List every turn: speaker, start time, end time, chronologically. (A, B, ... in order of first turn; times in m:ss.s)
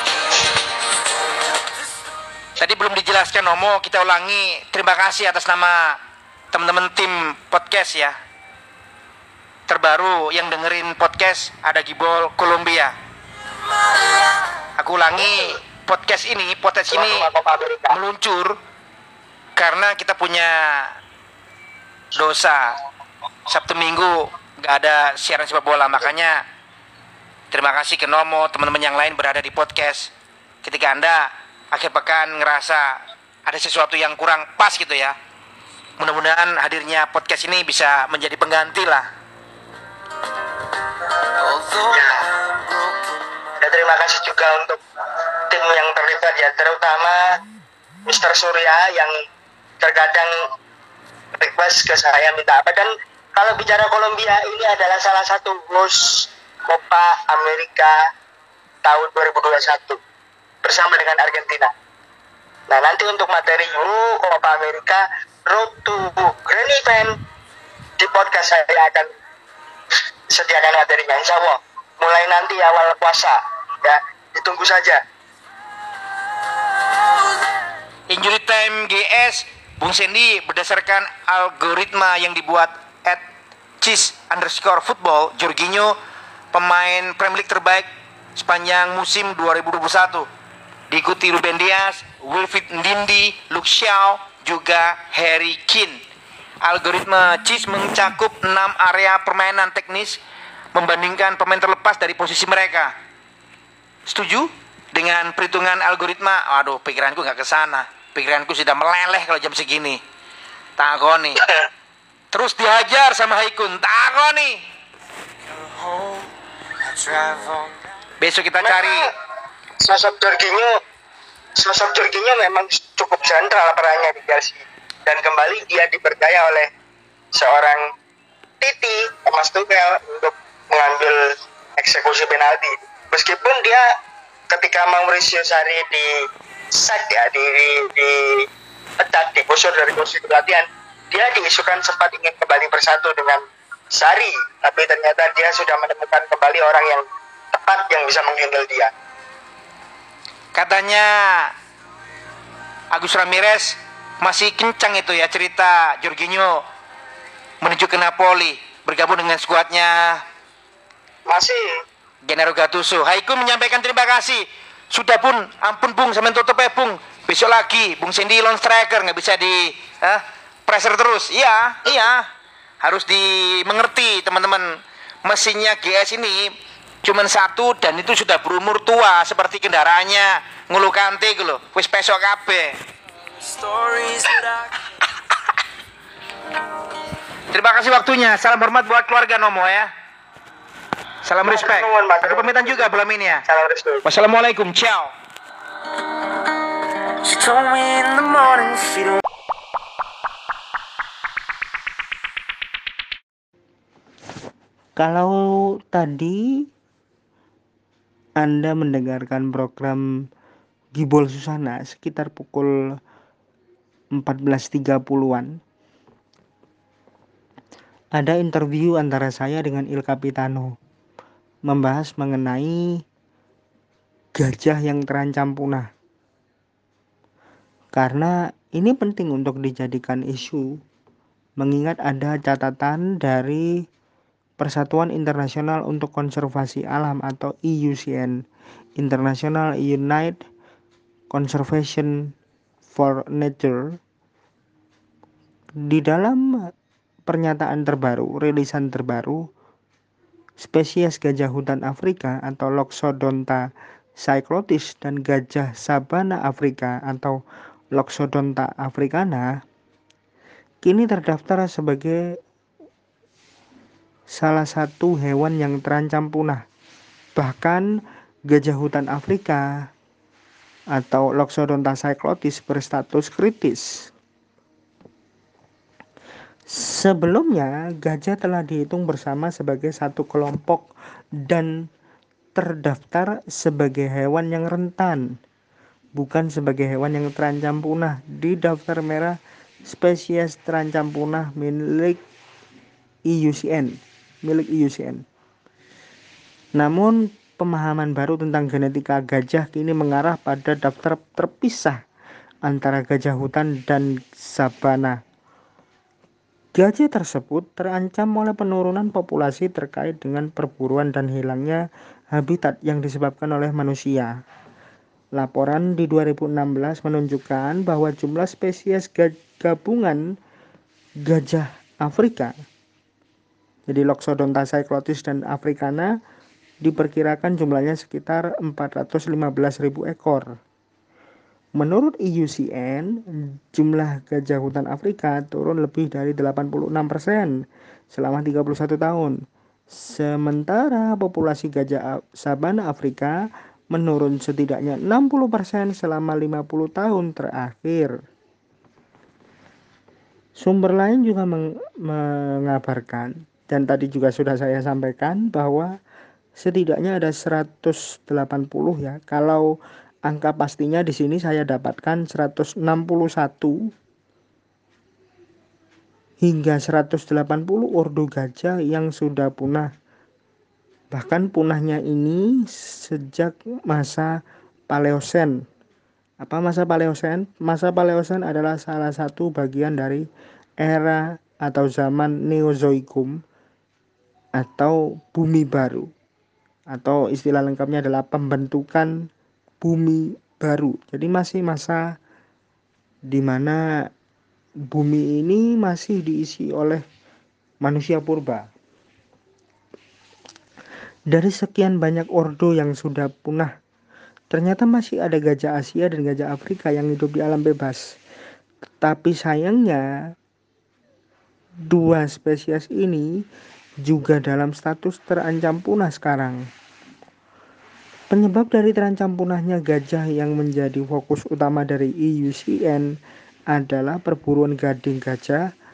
0:02.6-0:06.0 A
0:06.5-0:08.1 A
0:09.7-0:12.9 A
0:14.7-0:17.3 A
0:16.9-0:18.0 B
0:17.9-0:18.6 A
0:19.6-0:20.9 A
0:22.1-0:22.8 A
0:23.5-0:26.4 A
0:27.5-0:30.1 A
0:30.6-0:35.1 A
0:36.0-0:39.1 A
0:41.4-0:43.2 C
0:41.8-0:42.3 B
0:43.6-0:47.3 B
0:48.0-0:49.1 B
0:49.8-0:50.4 B
0:51.4-0:58.0 B
0:58.8-1:00.0 B
1:00.6-1:01.7 B
1:02.7-1:07.1 B
1:08.0-1:09.1 B
1:10.3-1:15.0 B
1:18.1-1:23.2 A
1:23.8-1:26.0 A
1:26.5-1:30.3 A
1:30.9-1:36.0 A
1:36.6-1:40.2 A
1:40.7-1:42.9 A
1:44.1-1:50.0 A
1:50.8-1:51.4 A
1:52.3-1:54.6 A
1:55.4-1:57.8 C
1:58.2-1:59.1 A
1:58.6-1:59.1 B
1:59.8-2:00.8 B
2:01.6-2:06.7 B
2:07.3-2:07.8 B
2:08.6-2:13.9 B
2:14.5-2:16.1 B
2:16.7-2:18.4 B
2:19.0-2:23.4 B
2:23.9-2:28.9 B
2:30.5-2:31.5 A
2:32.9-2:36.6 A
2:37.6-2:40.2 A
2:41.3-2:41.7 B
2:42.2-2:52.3 A
2:52.8-2:54.7 A
2:55.2-3:02.8 A
3:03.3-3:04.8 C
3:07.5-3:09.9 A
3:11.2-3:13.4 A
3:11.4-3:12.9 B
3:13.5-3:14.0 B
3:14.0-3:15.1 A
3:17.2-3:19.2 C
3:25.0-3:26.7 D
3:28.4-3:30.3 D
3:31.0-3:33.0 D
3:34.1-3:35.6 D
3:38.1-3:40.8 D
3:41.7-3:43.0 D
3:44.4-3:45.9 D
3:47.9-3:50.8 D
3:51.6-3:53.8 D
3:54.6-3:58.4 D
3:59.0-4:00.4 D
4:01.3-4:02.3 D
4:02.9-4:04.0 D
4:05.8-4:06.7 D
4:07.3-4:09.4 D
4:10.6-4:17.4 D
4:17.9-4:19.5 D
4:20.8-4:22.4 D
4:24.3-4:26.6 D
4:27.4-4:29.9 D
4:30.9-4:34.1 D
4:36.7-4:40.9 D
4:41.4-4:41.8 D
4:42.5-4:45.3 D
4:46.2-4:52.2 D
4:53.3-4:55.2 D
4:56.8-5:02.0 D
5:02.6-5:05.2 D
5:06.8-5:14.3 D
5:15.3-5:20.3 D
5:21.2-5:22.6 D
5:23.9-5:26.2 D
5:26.8-5:30.6 D
5:31.8-5:48.2 D
5:50.6-5:55.9 D
5:56.6-5:59.7 D
6:00.2-6:03.9 D
6:06.4-6:09.9 D
6:11.1-6:14.4 D
6:14.9-6:15.6 D
6:16.4-6:20.2 D
6:20.8-6:23.4 D
6:24.6-6:26.1 D
6:26.9-6:29.3 D
6:29.8-6:32.2 D
6:33.3-6:34.1 D
6:34.9-6:37.0 D
6:37.8-6:38.7 D
6:41.3-6:43.7 D
6:44.5-6:48.1 D
6:49.0-6:50.1 D
6:51.9-6:53.3 D
6:54.0-6:56.7 D
6:58.3-7:03.2 D
7:03.7-7:05.6 D